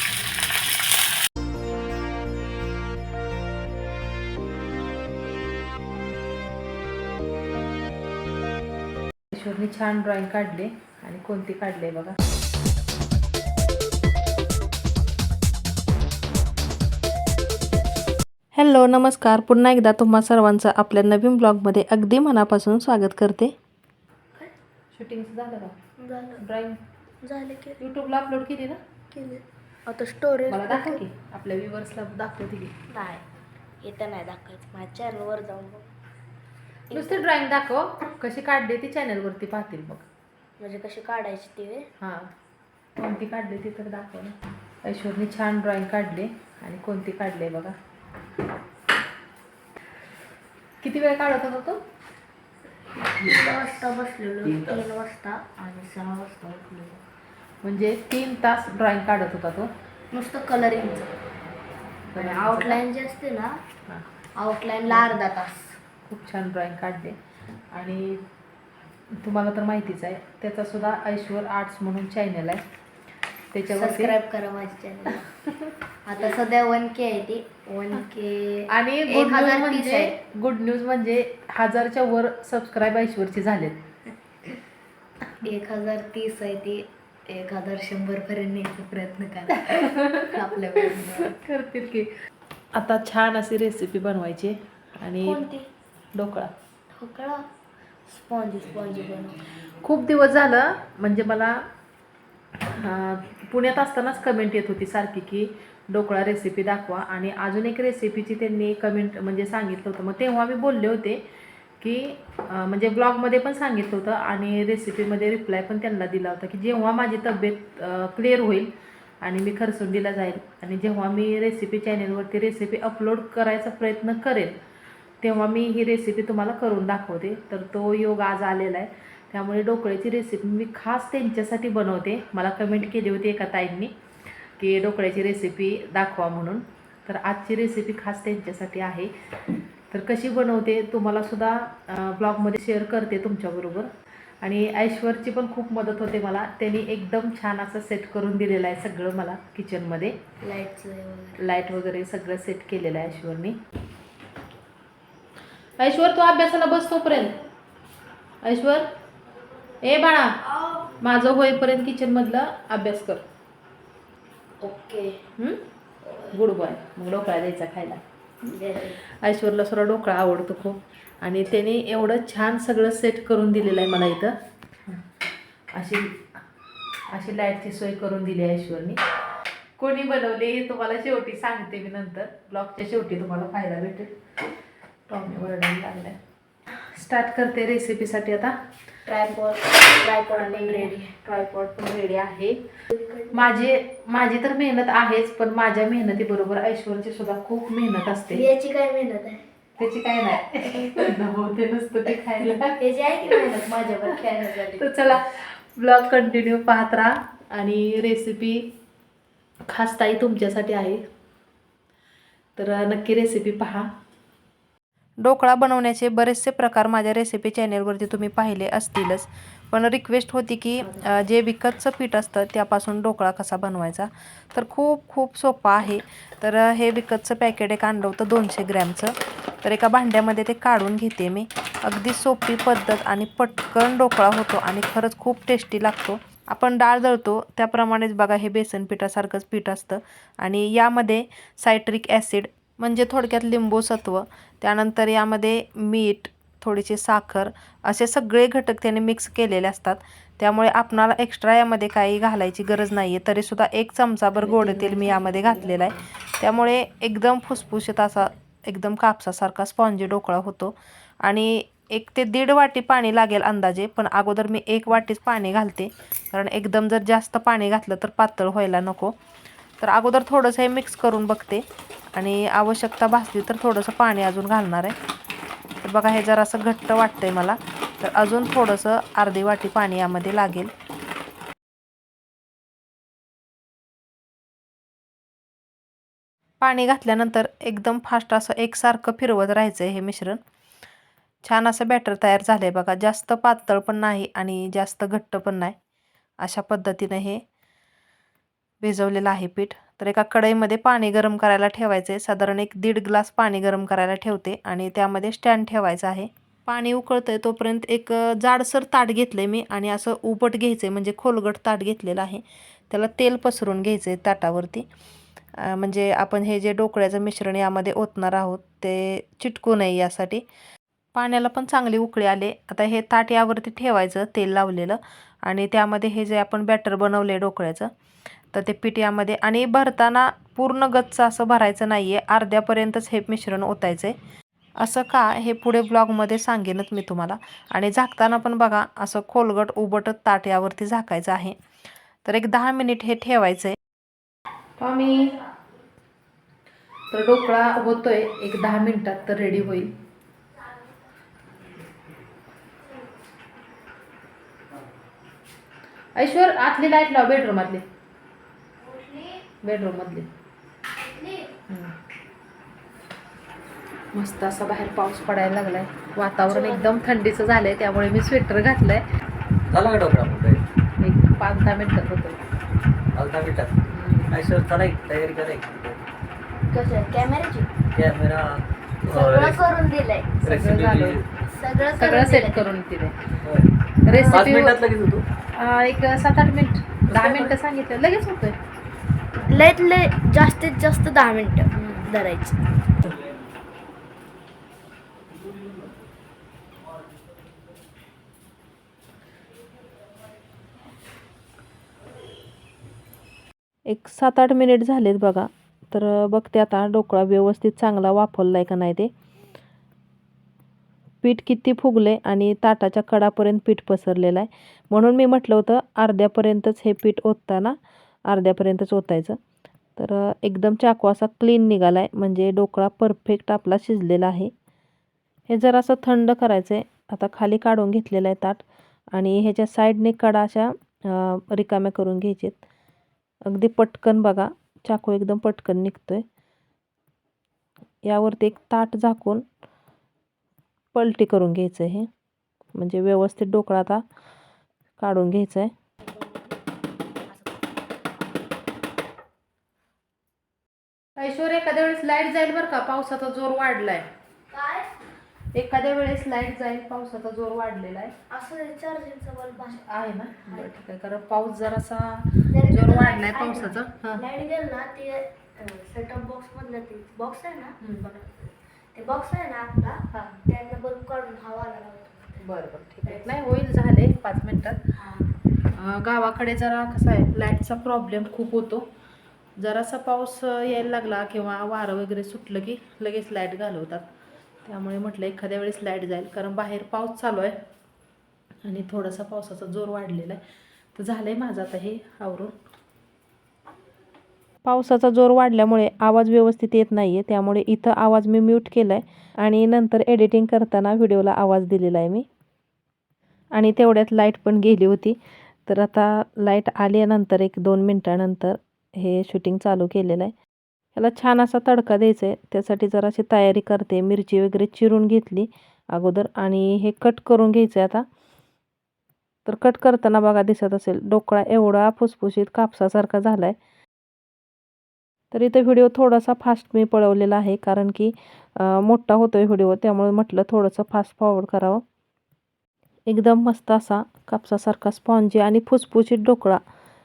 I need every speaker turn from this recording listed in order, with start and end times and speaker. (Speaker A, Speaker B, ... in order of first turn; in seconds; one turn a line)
Speaker A: 9.3-12.2
Speaker A: 18.6-23.5
Speaker A: 24.9-25.7
Speaker B: 26.0-26.4
Speaker A: 26.4-26.8
Speaker B: 27.2-27.8
Speaker A: 27.8-28.8
Speaker B: 29.1-31.0
Speaker A: 30.5-32.8
Speaker B: 32.9-33.2
Speaker B: 33.8-35.9
Speaker B: 36.9-37.3
Speaker A: 36.9-40.1
Speaker B: 40.6-41.9
Speaker A: 42.0-42.3
Speaker A: 43.0-47.8
Speaker A: 50.8-51.8
Speaker B: 53.0-57.0
Speaker C: 53.3-53.6
Speaker C: 54.5-54.9
Speaker A: 57.6-59.7
Speaker B: 60.1-61.1
Speaker A: 62.1-62.8
Speaker B: 62.1-63.6
Speaker B: 64.4-65.8
Speaker A: 66.1-67.2
Speaker A: 67.7-68.2
Speaker A: 69.2-72.6
Speaker A: 73.5-74.2
Speaker B: 73.7-75.3
Speaker A: 75.4-75.7
Speaker B: 76.0-80.2
Speaker A: 78.7-83.8
Speaker B: 85.4-91.3
Speaker A: 89.5-90.3
Speaker A: 91.2-92.1
Speaker A: 92.7-95.4
Speaker B: 95.2-95.7
Speaker A: 96.2-96.5
Speaker B: 97.0-97.5
Speaker B: 98.1-99.4
Speaker A: 99.7-101.6
Speaker A: 102.6-111.2
Speaker A: 111.8-124.6
Speaker A: 125.2-133.9
Speaker A: 134.6-139.1
Speaker A: 139.9-143.9
Speaker A: 144.4-150.2
Speaker B: 150.4-151.4
Speaker A: 151.4-153.6
Speaker A: 155.8-157.4
Speaker A: 158.4-158.9
Speaker A: 159.8-160.4
Speaker A: 161.0-163.2
Speaker B: 164.6-165.2
Speaker B: 166.1-166.3
Speaker A: 166.3-168.6
Speaker B: 168.5-169.0
Speaker A: 169.2-175.0
Speaker A: 175.7-176.2
Speaker A: 177.1-179.0
Speaker A: 179.8-184.1
Speaker A: 185.1-186.2
Speaker A: 186.7-188.6
Speaker B: 189.1-191.1
Speaker A: 190.3-192.6
Speaker B: 192.9-193.5
Speaker A: 193.3-198.5
Speaker B: 198.3-199.4
Speaker A: 199.8-202.8
Speaker B: 200.7-201.1
Speaker B: 202.8-205.2
Speaker A: 204.8-208.7
Speaker A: 209.7-211.1
Speaker A: 212.6-213.9
Speaker A: 215.2-269.1
Speaker B: 254.4-256.0
Speaker A: 269.8-271.6
Speaker A: 272.1-275.0
Speaker A: 275.8-280.7
Speaker A: 286.6-290.4
Speaker A: 291.4-295.8
Speaker A: 296.4-297.4
Speaker A: 298.8-314.9
Speaker A: 315.6-320.4
Speaker A: 321.1-327.9
Speaker A: 328.5-334.2
Speaker A: 334.8-341.6
Speaker A: 342.2-343.8
Speaker A: 344.8-345.4
Speaker A: 347.1-349.9
Speaker A: 356.2-357.8
Speaker B: 358.8-359.4
Speaker A: 359.6-360.3
Speaker B: 360.9-361.5
Speaker A: 361.7-362.0
Speaker A: 364.1-369.0
Speaker B: 366.5-366.9
Speaker C: 369.7-370.6
Speaker A: 371.0-372.4
Speaker C: 373.1-373.8
Speaker A: 373.9-374.3
Speaker C: 374.3-376.0
Speaker B: 376.6-377.7
Speaker C: 378.0-379.6
Speaker B: 379.1-380.4
Speaker A: 380.4-381.2
Speaker C: 380.5-381.1
Speaker B: 381.5-382.7
Speaker A: 382.0-383.3
Speaker A: 384.1-384.8
Speaker B: 384.1-384.5
Speaker C: 384.3-385.2
Speaker A: 385.5-388.6
Speaker B: 387.2-387.5
Speaker B: 389.4-392.6
Speaker A: 391.7-392.1
Speaker A: 403.9-409.1
Speaker A: 411.2-417.8
Speaker A: 418.3-419.4
Speaker A: 420.0-424.5
Speaker A: 425.5-432.6
Speaker A: 433.5-436.2
Speaker A: 438.0-439.4
Speaker A: 440.9-442.1
Speaker A: 442.8-444.0
Speaker A: 445.0-445.7
Speaker B: 446.0-446.6
Speaker B: 447.3-447.8
Speaker A: 451.2-454.1
Speaker B: 454.5-454.9
Speaker A: 455.5-458.1
Speaker B: 458.3-460.7
Speaker A: 459.8-464.2
Speaker B: 462.5-472.4
Speaker A: 470.1-470.4
Speaker A: 472.4-474.8
Speaker B: 473.0-473.4
Speaker B: 475.0-475.4
Speaker A: 475.7-478.9
Speaker A: 479.6-484.1
Speaker A: 484.6-487.6
Speaker A: 488.6-490.4
Speaker A: 490.9-492.5
Speaker A: 494.6-502.3
Speaker A: 503.5-510.3
Speaker A: 510.9-518.0
Speaker A: 519.5-523.6
Speaker A: 525.3-531.8
Speaker A: 533.1-536.6